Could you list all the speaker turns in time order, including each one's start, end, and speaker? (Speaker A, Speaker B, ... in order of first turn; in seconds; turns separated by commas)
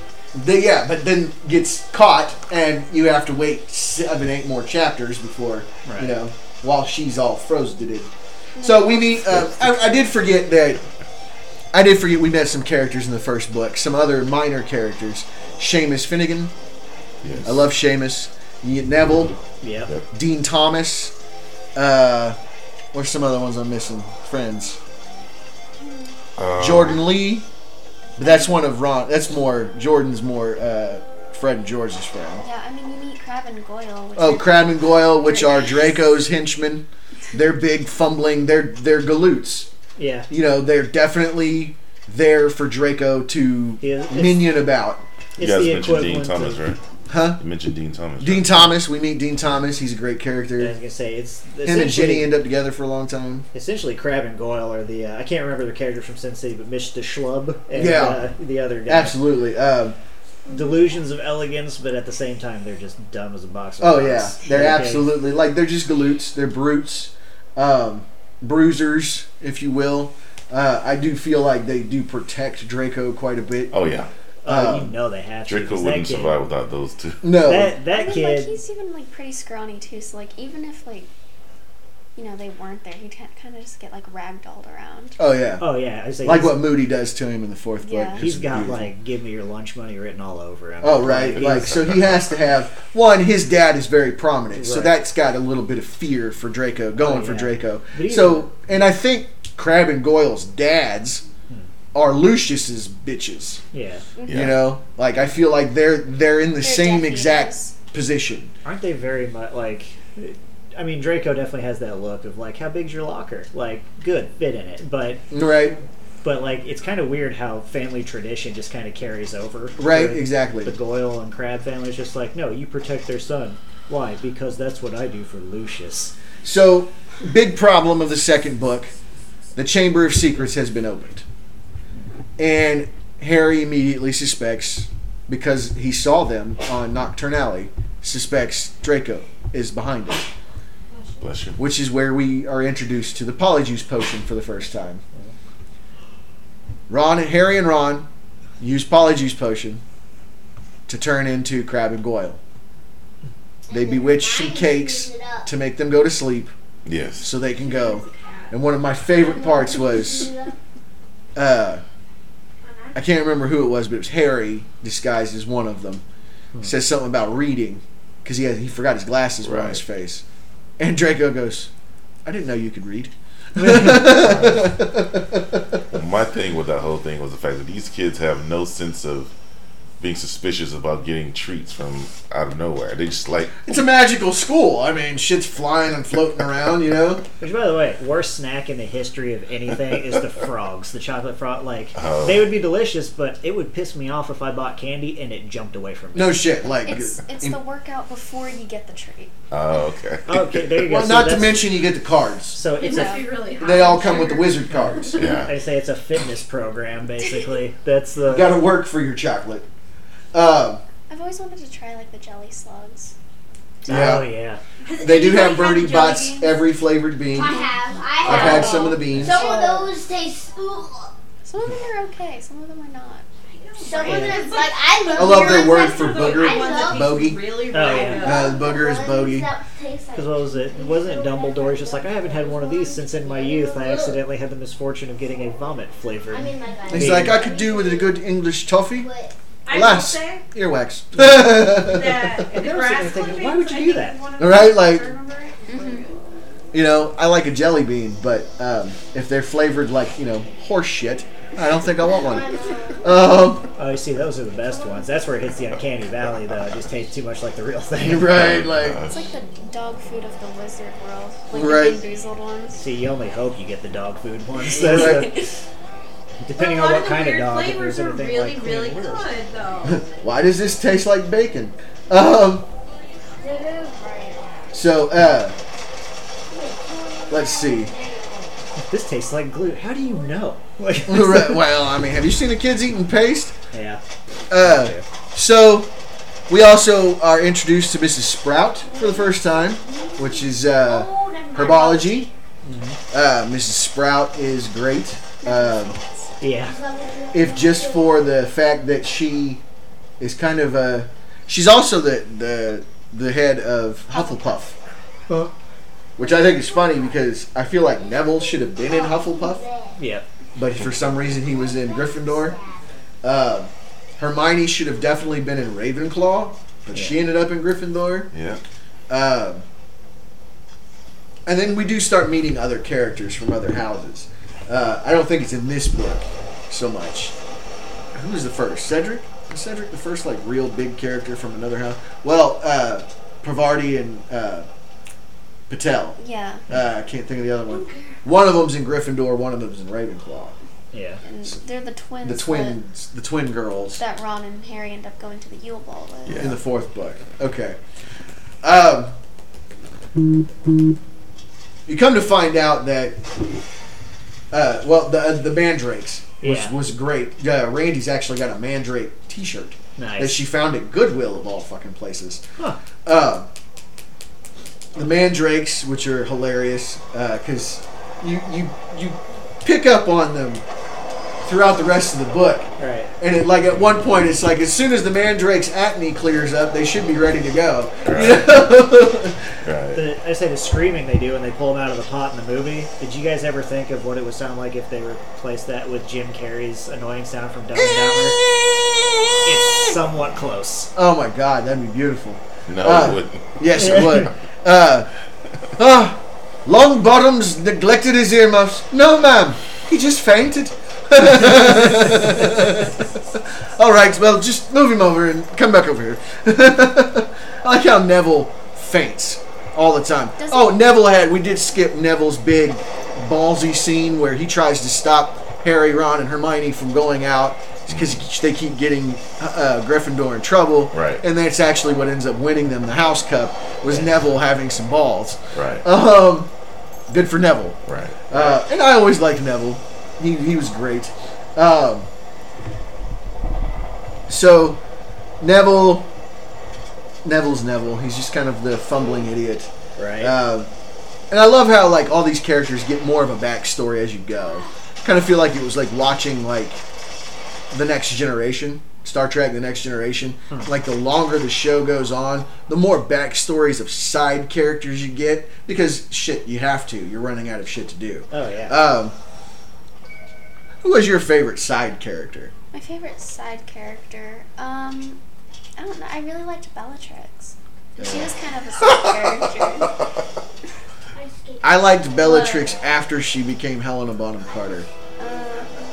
Speaker A: 0.3-10.8, Speaker B: 5.8-6.2, Speaker C: 8.6-9.2, Speaker A: 11.7-16.5, Speaker D: 17.2-17.6, Speaker A: 17.4-19.4, Speaker B: 19.6-19.9, Speaker A: 20.1-21.1, Speaker A: 21.7-22.4, Speaker A: 22.9-24.8, Speaker D: 26.4-27.1, Speaker A: 26.6-27.4, Speaker C: 28.2-28.7, Speaker A: 28.2-32.4, Speaker C: 32.4-36.0, Speaker A: 34.1-39.7, Speaker B: 40.0-40.3, Speaker A: 40.3-45.0, Speaker B: 43.8-44.5, Speaker B: 45.4-46.6, Speaker D: 45.4-46.8, Speaker A: 47.1-47.4, Speaker D: 47.4-48.6, Speaker A: 48.2-50.7, Speaker B: 50.6-52.3, Speaker A: 51.6-53.5, Speaker B: 53.5-59.2, Speaker A: 57.7-58.3, Speaker A: 58.9-60.0, Speaker B: 60.5-65.1, Speaker A: 63.8-73.8, Speaker D: 73.7-74.1, Speaker B: 74.4-76.4, Speaker A: 74.5-74.9, Speaker D: 75.5-77.2, Speaker A: 77.2-77.8, Speaker B: 77.4-78.6, Speaker C: 77.8-81.1, Speaker C: 82.2-85.2, Speaker A: 85.2-85.6, Speaker B: 85.6-86.6, Speaker A: 86.2-88.8, Speaker C: 87.8-88.2, Speaker B: 88.2-91.7, Speaker A: 90.8-101.2, Speaker D: 91.1-92.2, Speaker B: 94.5-95.0, Speaker B: 97.0-98.5, Speaker A: 101.9-103.6, Speaker B: 103.7-104.0, Speaker C: 104.2-104.5, Speaker D: 104.3-104.6, Speaker A: 104.3-108.5, Speaker C: 106.6-107.8, Speaker B: 108.6-115.2, Speaker A: 115.3-115.8, Speaker B: 116.2-126.1, Speaker A: 119.8-120.7, Speaker A: 126.4-128.9, Speaker A: 129.5-131.2, Speaker A: 132.4-140.3, Speaker E: 140.9-141.2, Speaker D: 141.2-141.6, Speaker A: 141.6-145.0, Speaker A: 146.9-148.1, Speaker A: 148.6-149.8, Speaker A: 150.9-152.4, Speaker E: 153.7-155.5, Speaker A: 153.7-156.5, Speaker D: 156.8-157.3, Speaker A: 157.2-160.3, Speaker F: 157.5-158.5, Speaker E: 159.2-160.5, Speaker A: 161.3-161.8, Speaker F: 162.6-163.0, Speaker A: 162.9-166.0, Speaker A: 166.6-170.2, Speaker D: 169.4-169.8, Speaker A: 170.8-171.7, Speaker A: 172.2-175.8, Speaker B: 173.6-174.3, Speaker D: 174.0-174.8, Speaker D: 175.9-179.3, Speaker D: 180.0-183.7, Speaker A: 183.6-187.2, Speaker B: 187.4-196.4, Speaker D: 191.9-192.5, Speaker A: 196.1-197.6, Speaker C: 196.8-199.3, Speaker D: 199.5-200.6, Speaker B: 200.2-201.7, Speaker A: 200.8-202.6, Speaker B: 202.5-203.2, Speaker F: 202.8-205.0, Speaker C: 202.8-203.5, Speaker A: 203.6-205.3, Speaker B: 204.7-208.6, Speaker D: 205.2-205.6, Speaker A: 208.3-209.7, Speaker A: 210.3-210.8, Speaker C: 211.1-213.1, Speaker B: 213.8-214.6, Speaker A: 213.9-214.2, Speaker C: 213.9-214.2, Speaker F: 214.8-216.6, Speaker A: 215.0-217.7, Speaker E: 217.3-221.1, Speaker C: 217.4-217.7, Speaker F: 217.7-219.7, Speaker A: 218.2-219.5, Speaker C: 218.2-219.9, Speaker B: 218.4-219.4, Speaker C: 221.4-223.2, Speaker F: 223.5-228.7, Speaker E: 223.8-227.3, Speaker B: 224.0-224.5, Speaker A: 225.1-227.4, Speaker B: 227.7-228.4, Speaker E: 227.8-234.2, Speaker A: 228.2-229.5, Speaker B: 230.1-237.5, Speaker E: 236.3-238.2, Speaker A: 236.9-239.1, Speaker E: 238.9-239.3, Speaker F: 239.7-240.4, Speaker A: 239.7-242.5, Speaker B: 241.2-241.7, Speaker F: 241.8-246.2, Speaker B: 242.5-244.2, Speaker A: 244.4-245.1, Speaker C: 245.7-246.1, Speaker A: 246.7-253.7, Speaker E: 252.0-253.2, Speaker B: 253.8-258.6, Speaker A: 258.0-259.0, Speaker D: 258.2-259.2, Speaker C: 259.0-262.8, Speaker A: 261.5-262.0, Speaker B: 262.7-265.5, Speaker A: 264.8-265.4, Speaker C: 264.8-265.5, Speaker B: 266.4-269.4, Speaker F: 266.6-270.0, Speaker A: 269.8-272.7, Speaker E: 273.4-274.7, Speaker A: 274.7-275.6, Speaker E: 276.5-278.5, Speaker A: 277.3-277.9, Speaker B: 278.8-281.6, Speaker A: 281.1-283.5, Speaker B: 283.7-284.0, Speaker A: 284.5-285.9, Speaker B: 284.6-285.0, Speaker A: 286.5-292.3, Speaker E: 288.8-292.3, Speaker B: 292.6-293.0, Speaker A: 293.1-296.0, Speaker C: 295.4-296.4, Speaker B: 296.4-296.8, Speaker E: 296.6-298.2, Speaker A: 297.3-299.6, Speaker A: 300.2-304.7, Speaker C: 304.1-304.7, Speaker A: 306.2-309.6, Speaker E: 306.2-307.2, Speaker E: 308.0-310.0, Speaker B: 310.0-310.2, Speaker A: 310.6-312.6, Speaker E: 311.1-312.8, Speaker A: 313.2-318.3, Speaker B: 316.9-317.2, Speaker D: 318.3-318.6, Speaker A: 319.1-319.6, Speaker A: 321.4-327.3, Speaker A: 328.1-334.7, Speaker A: 335.7-340.6, Speaker C: 336.2-336.6, Speaker E: 337.7-338.2, Speaker B: 340.9-341.2, Speaker C: 341.2-342.8, Speaker A: 342.2-344.0, Speaker C: 344.0-346.5, Speaker D: 346.2-346.6, Speaker A: 346.4-347.8, Speaker A: 348.6-349.1, Speaker A: 351.9-353.2, Speaker A: 354.5-362.4, Speaker B: 356.4-356.7, Speaker B: 360.0-360.4, Speaker A: 363.0-363.5, Speaker A: 364.9-370.6, Speaker A: 371.4-379.5, Speaker B: 372.8-373.1, Speaker D: 378.0-378.6, Speaker D: 379.6-380.0, Speaker B: 379.9-388.4, Speaker A: 388.4-389.3, Speaker B: 389.4-390.9, Speaker A: 390.9-395.1, Speaker D: 392.7-394.2, Speaker B: 393.8-394.3, Speaker A: 395.8-426.5, Speaker C: 410.4-410.8, Speaker D: 417.9-418.2, Speaker D: 420.9-421.2, Speaker B: 423.9-424.2, Speaker D: 425.5-425.9, Speaker A: 427.1-432.1, Speaker D: 427.9-428.2, Speaker B: 428.3-428.6, Speaker A: 434.3-434.8, Speaker A: 435.4-436.1, Speaker A: 437.2-440.7, Speaker B: 440.0-440.4, Speaker A: 441.3-446.8, Speaker A: 447.7-459.1, Speaker B: 458.3-458.8, Speaker A: 460.8-462.5, Speaker C: 462.7-465.2, Speaker C: 465.8-469.9, Speaker A: 468.0-468.3, Speaker D: 468.8-470.1, Speaker E: 471.1-472.8, Speaker A: 471.6-474.9, Speaker C: 475.2-475.8